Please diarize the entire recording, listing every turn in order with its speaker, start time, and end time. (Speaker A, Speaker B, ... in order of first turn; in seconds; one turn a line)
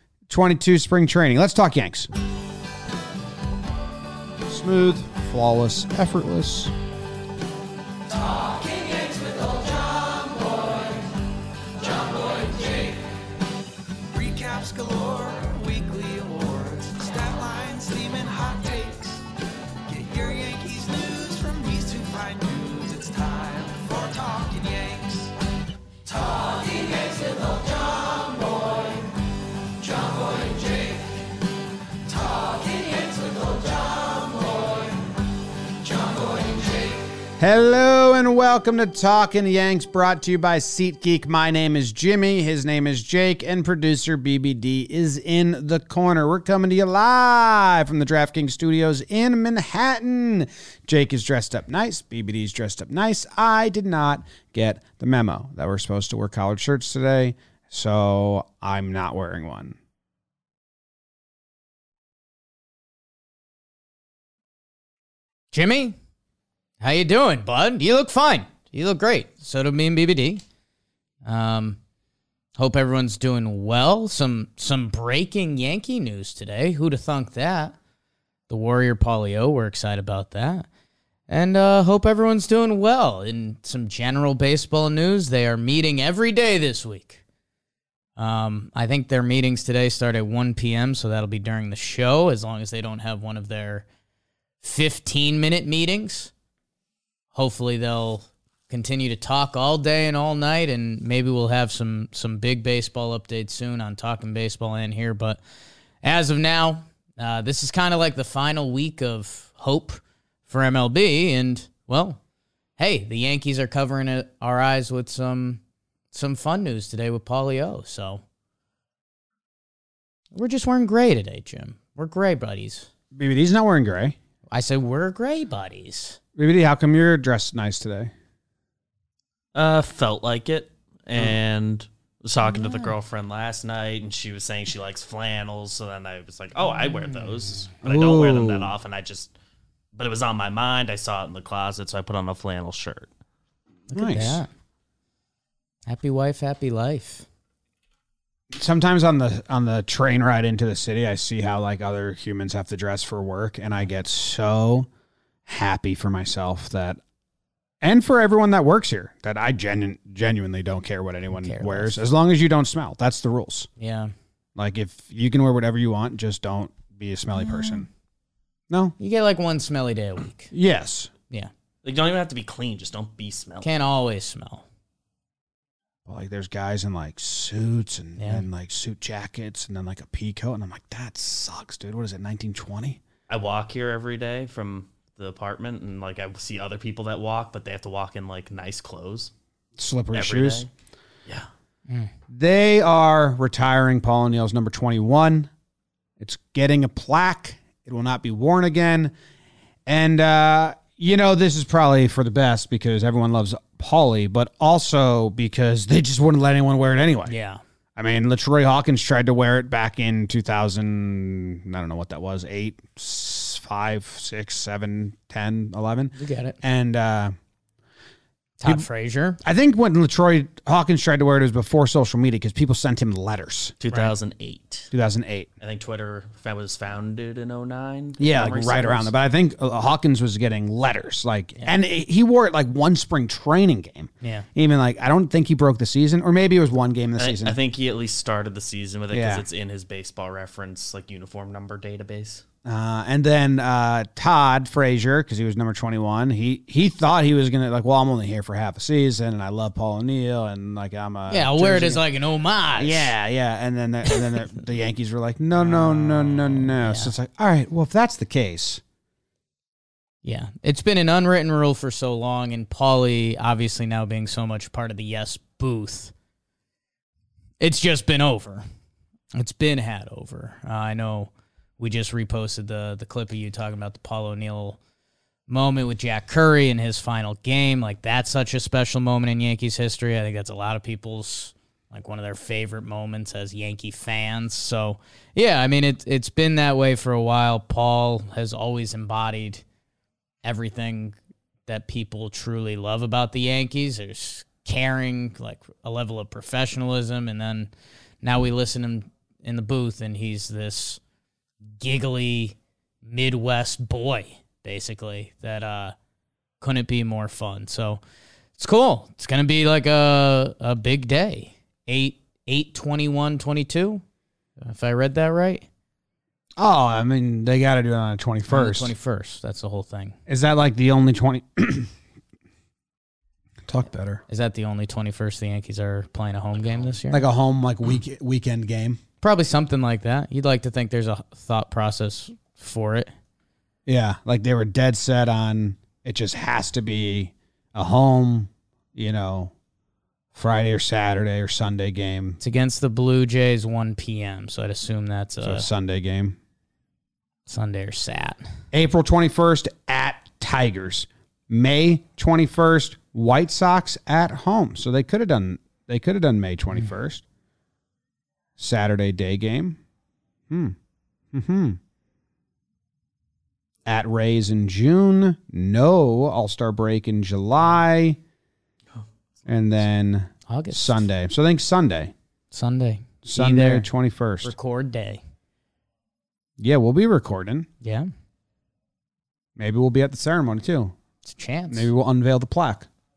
Speaker A: 0.3-2.1
Speaker A: 4.5-6.7
Speaker B: 8.7-10.8
Speaker B: 11.9-12.9
Speaker B: 14.1-19.2
Speaker B: 19.9-25.3
Speaker B: 26.1-28.9
Speaker B: 29.9-30.8
Speaker B: 32.1-34.7
Speaker B: 35.9-36.2
Speaker A: 37.4-59.8
Speaker C: 65.5-66.0
Speaker C: 66.8-70.4
Speaker C: 71.2-71.8
Speaker C: 72.6-77.8
Speaker C: 78.5-80.7
Speaker C: 81.3-87.2
Speaker C: 88.2-93.9
Speaker C: 94.6-96.3
Speaker C: 97.3-105.4
Speaker C: 106.0-112.2
Speaker C: 112.8-115.6
Speaker C: 116.1-118.2
Speaker C: 120.3-122.9
Speaker A: 123.1-124.2
Speaker C: 124.5-126.2
Speaker A: 126.4-128.1
Speaker D: 129.5-139.3
Speaker A: 137.8-138.7
Speaker D: 139.9-143.1
Speaker C: 143.9-144.5
Speaker A: 143.9-144.4
Speaker C: 145.9-147.3
Speaker A: 148.5-154.9
Speaker A: 155.5-157.0
Speaker A: 157.8-163.7
Speaker C: 161.3-162.1
Speaker C: 163.8-164.1
Speaker A: 164.6-167.9
Speaker C: 167.5-167.8
Speaker A: 168.7-168.9
Speaker C: 169.0-170.5
Speaker A: 170.5-171.1
Speaker D: 171.8-173.7
Speaker C: 173.6-174.7
Speaker A: 176.1-183.0
Speaker C: 178.2-178.4
Speaker D: 183.3-189.3
Speaker A: 189.8-190.7
Speaker D: 190.1-190.7
Speaker A: 192.3-195.5
Speaker A: 196.2-199.1
Speaker A: 199.9-207.3
Speaker C: 207.3-207.6
Speaker A: 208.0-217.3
Speaker C: 216.2-216.6
Speaker C: 218.6-219.4
Speaker A: 219.4-223.8
Speaker D: 223.8-224.9
Speaker A: 224.9-225.5
Speaker D: 225.6-229.1
Speaker A: 228.2-237.6
Speaker C: 234.2-234.5
Speaker D: 237.2-242.4
Speaker A: 239.1-239.4
Speaker A: 242.7-252.0
Speaker C: 251.3-253.1
Speaker A: 252.8-258.8
Speaker C: 255.6-257.1
Speaker C: 260.2-266.1
Speaker C: 267.6-268.6
Speaker C: 269.4-274.8
Speaker C: 275.5-289.6
Speaker C: 290.4-297.7
Speaker C: 298.2-301.0
Speaker C: 301.8-305.9
Speaker C: 306.6-308.0
Speaker C: 308.6-314.0
Speaker C: 314.6-315.7
Speaker A: 316.6-318.9
Speaker C: 318.5-320.2
Speaker A: 320.3-321.9
Speaker A: 323.7-324.2
Speaker C: 324.3-327.2
Speaker A: 327.1-329.0
Speaker C: 329.2-333.1
Speaker A: 333.9-339.5
Speaker A: 340.3-342.4
Speaker C: 342.4-345.7
Speaker A: 345.4-346.4
Speaker C: 347.5-348.4
Speaker A: 348.7-357.2
Speaker A: 358.6-359.8
Speaker A: 360.5-360.8
Speaker A: 361.3-361.8
Speaker A: 363.9-368.2
Speaker D: 368.9-369.4
Speaker A: 369.5-372.1
Speaker C: 370.5-371.1
Speaker C: 372.5-373.9
Speaker A: 373.2-374.6
Speaker C: 374.4-375.2
Speaker A: 376.6-377.7
Speaker C: 377.8-378.1
Speaker A: 379.6-380.9
Speaker C: 381.2-381.9
Speaker A: 381.7-382.9